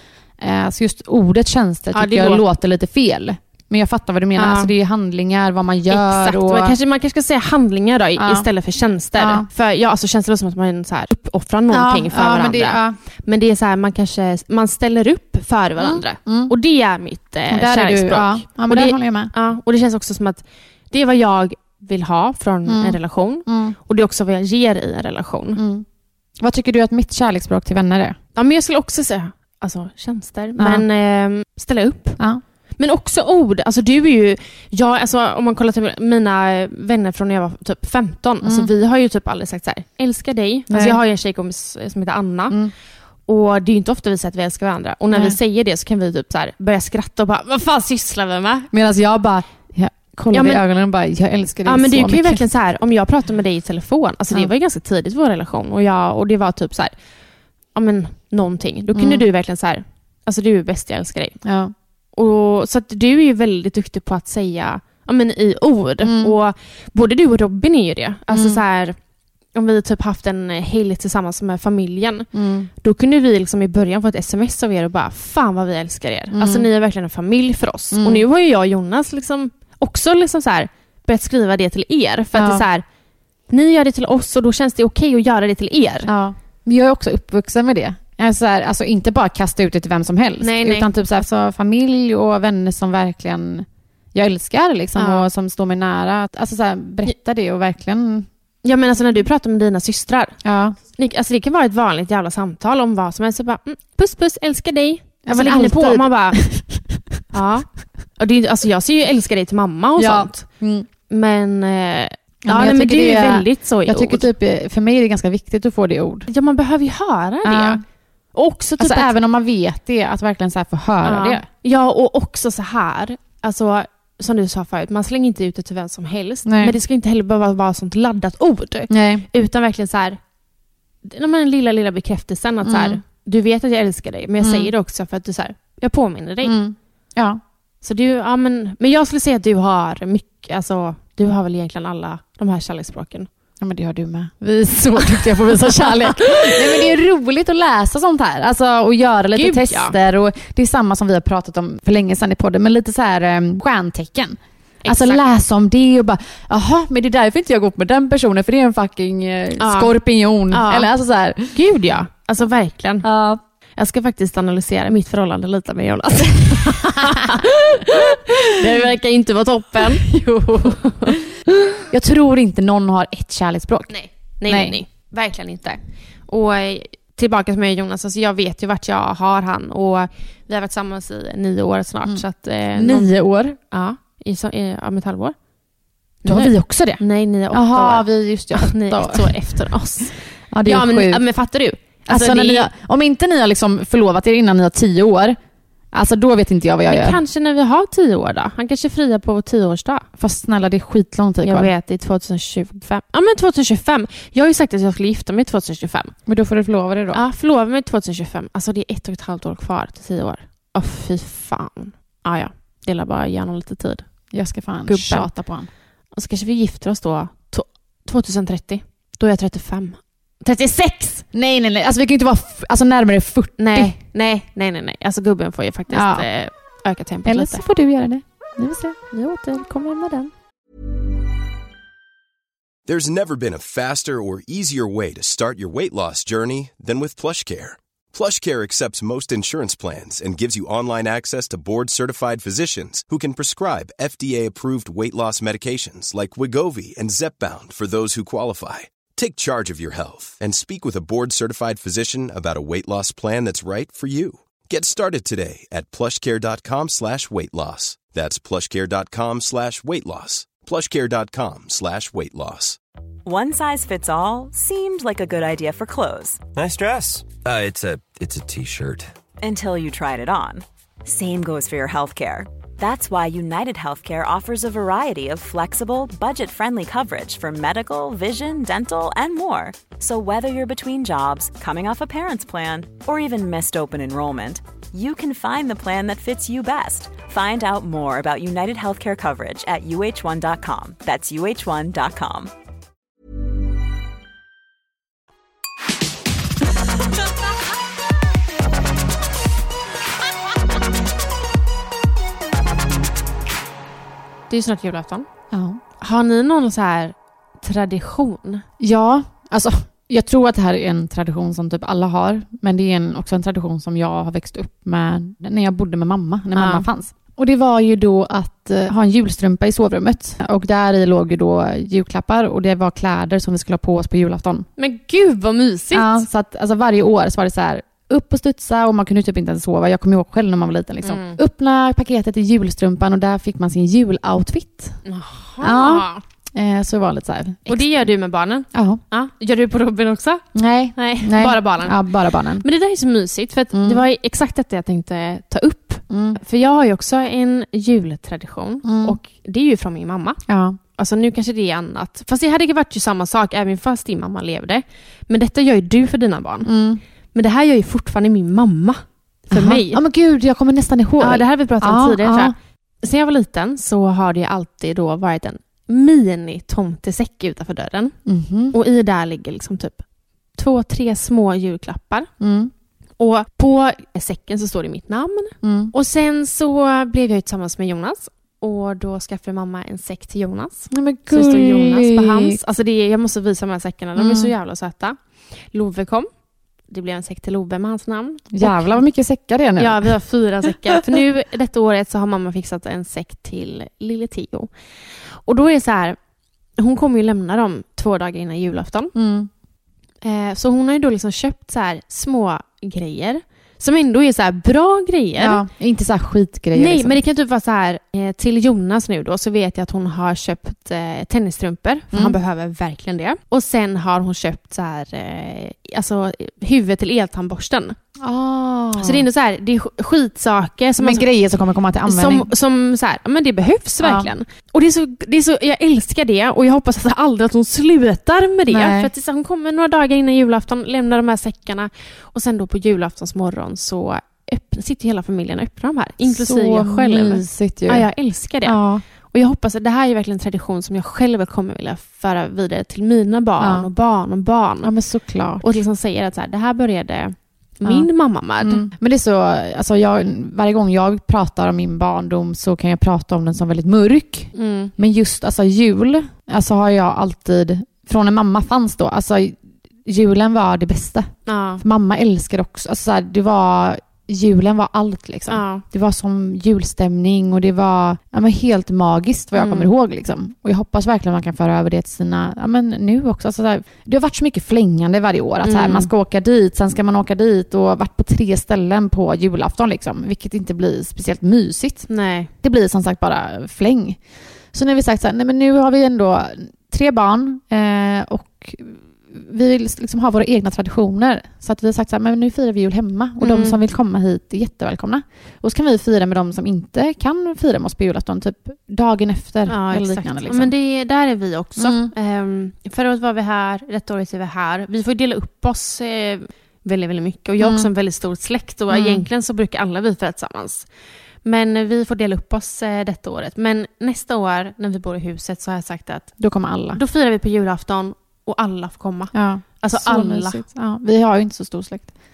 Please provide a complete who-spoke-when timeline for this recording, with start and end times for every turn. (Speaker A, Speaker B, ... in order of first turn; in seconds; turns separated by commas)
Speaker A: 0.4-6.8, Speaker B: 1.9-2.4, Speaker B: 4.4-4.7, Speaker B: 5.9-25.6, Speaker A: 8.2-8.5, Speaker A: 9.2-9.5, Speaker A: 11.7-13.0, Speaker A: 15.8-16.5, Speaker A: 17.5-19.3, Speaker A: 22.7-23.8, Speaker A: 25.6-25.9, Speaker A: 26.4-28.2, Speaker B: 28.4-32.2, Speaker A: 30.6-30.9, Speaker B: 32.8-42.6, Speaker A: 38.4-38.7, Speaker A: 40.7-41.0, Speaker B: 43.3-48.7, Speaker A: 45.1-45.4, Speaker A: 48.7-52.5, Speaker B: 50.3-50.6, Speaker B: 51.7-56.9, Speaker B: 57.8-61.4, Speaker A: 59.0-59.2, Speaker A: 61.4-61.7, Speaker B: 62.2-69.0, Speaker A: 66.0-66.3, Speaker A: 68.3-68.6, Speaker B: 69.5-82.8, Speaker A: 72.3-72.7, Speaker A: 76.3-76.7, Speaker A: 77.9-78.2, Speaker A: 82.3-82.7, Speaker B: 83.5-86.1, Speaker A: 86.1-98.3, Speaker B: 90.4-90.9, Speaker B: 95.0-95.3, Speaker B: 98.6-100.4, Speaker A: 100.4-100.8, Speaker B: 100.9-106.4, Speaker A: 105.3-107.0, Speaker B: 107.3-110.5, Speaker A: 110.0-110.9, Speaker B: 111.1-114.3, Speaker A: 112.5-116.3, Speaker B: 116.3-117.8, Speaker A: 117.5-117.8, Speaker B: 118.3-119.1, Speaker A: 118.8-121.4, Speaker B: 121.0-130.2, Speaker A: 126.5-126.8, Speaker A: 128.9-129.3, Speaker B: 131.0-136.6, Speaker A: 132.6-133.0, Speaker A: 134.4-134.7, Speaker A: 136.4-137.4, Speaker B: 137.8-143.3, Speaker A: 143.6-161.6, Speaker B: 144.9-146.9, Speaker B: 149.3-150.0, Speaker B: 154.8-155.2, Speaker B: 159.6-159.9, Speaker B: 160.5-160.9, Speaker B: 161.5-163.1, Speaker A: 163.0-163.4, Speaker B: 163.8-171.2, Speaker A: 166.6-168.7, Speaker A: 169.8-171.2, Speaker A: 171.8-173.9, Speaker B: 173.9-185.3, Speaker A: 174.5-174.8, Speaker A: 182.8-183.6, Speaker B: 186.2-192.7, Speaker A: 186.3-189.3, Speaker A: 190.5-191.2, Speaker A: 192.1-195.4, Speaker A: 195.9-197.2, Speaker B: 196.9-200.1, Speaker A: 200.2-201.7, Speaker B: 201.4-206.1, Speaker A: 206.3-207.2, Speaker B: 207.1-214.1, Speaker A: 214.3-215.7, Speaker B: 214.9-215.3, Speaker B: 216.2-221.3, Speaker A: 221.3-224.0, Speaker B: 223.6-227.6, Speaker A: 225.9-226.3, Speaker A: 227.3-229.0, Speaker B: 229.1-230.3, Speaker C: 232.9-262.8, Speaker D: 263.2-266.4, Speaker E: 266.5-269.1, Speaker D: 269.4-292.5, Speaker B: 304.5-305.3, Speaker A: 305.5-305.8, Speaker B: 306.0-308.6, Speaker A: 308.8-324.7, Speaker B: 316.6-316.9, Speaker B: 324.8-326.2, Speaker A: 325.9-335.0, Speaker B: 331.0-331.4, Speaker B: 335.1-336.2, Speaker A: 335.6-338.0, Speaker B: 337.7-340.4, Speaker A: 338.7-339.0, Speaker A: 340.5-342.6, Speaker B: 341.0-342.1, Speaker B: 342.6-350.4, Speaker A: 343.7-344.0, Speaker A: 346.1-346.4, Speaker A: 348.8-349.2, Speaker A: 350.5-350.8, Speaker B: 350.9-356.7, Speaker A: 356.6-357.0, Speaker B: 357.3-360.0, Speaker A: 359.5-362.6, Speaker B: 361.2-368.2, Speaker A: 368.3-368.8, Speaker B: 368.7-370.0, Speaker B: 370.6-372.3, Speaker A: 372.4-372.7, Speaker B: 373.2-385.2, Speaker A: 375.6-375.9, Speaker A: 380.9-382.6, Speaker A: 384.2-384.5, Speaker B: 385.7-386.3, Speaker B: 386.9-389.0, Speaker A: 388.5-390.1, Speaker B: 389.8-394.7, Speaker B: 395.4-396.2, Speaker B: 396.8-399.1, Speaker A: 399.1-399.5, Speaker B: 400.2-405.6, Speaker A: 405.4-407.2, Speaker B: 406.7-418.0, Speaker A: 412.1-412.4, Speaker A: 418.2-419.3, Speaker B: 419.0-421.3, Speaker A: 421.0-422.5, Speaker B: 422.1-444.9, Speaker A: 424.0-424.3, Speaker A: 428.7-429.1, Speaker A: 436.2-438.1, Speaker A: 438.6-439.0, Speaker A: 443.6-443.9, Speaker A: 444.8-445.6, Speaker B: 445.6-448.9, Speaker A: 448.6-482.1, Speaker B: 454.6-454.9, Speaker B: 461.5-461.8, Speaker B: 465.5-465.8, Speaker B: 469.6-469.9, Speaker B: 475.6-476.1, Speaker B: 482.1-482.5, Speaker A: 482.6-484.2, Speaker A: 484.7-500.7, Speaker B: 493.4-493.8, Speaker B: 499.7-510.9, Speaker A: 501.8-502.1, Speaker A: 507.6-507.9, Speaker A: 508.9-509.3, Speaker B: 511.4-516.4, Speaker A: 516.4-517.0, Speaker B: 516.9-520.6, Speaker A: 519.3-522.1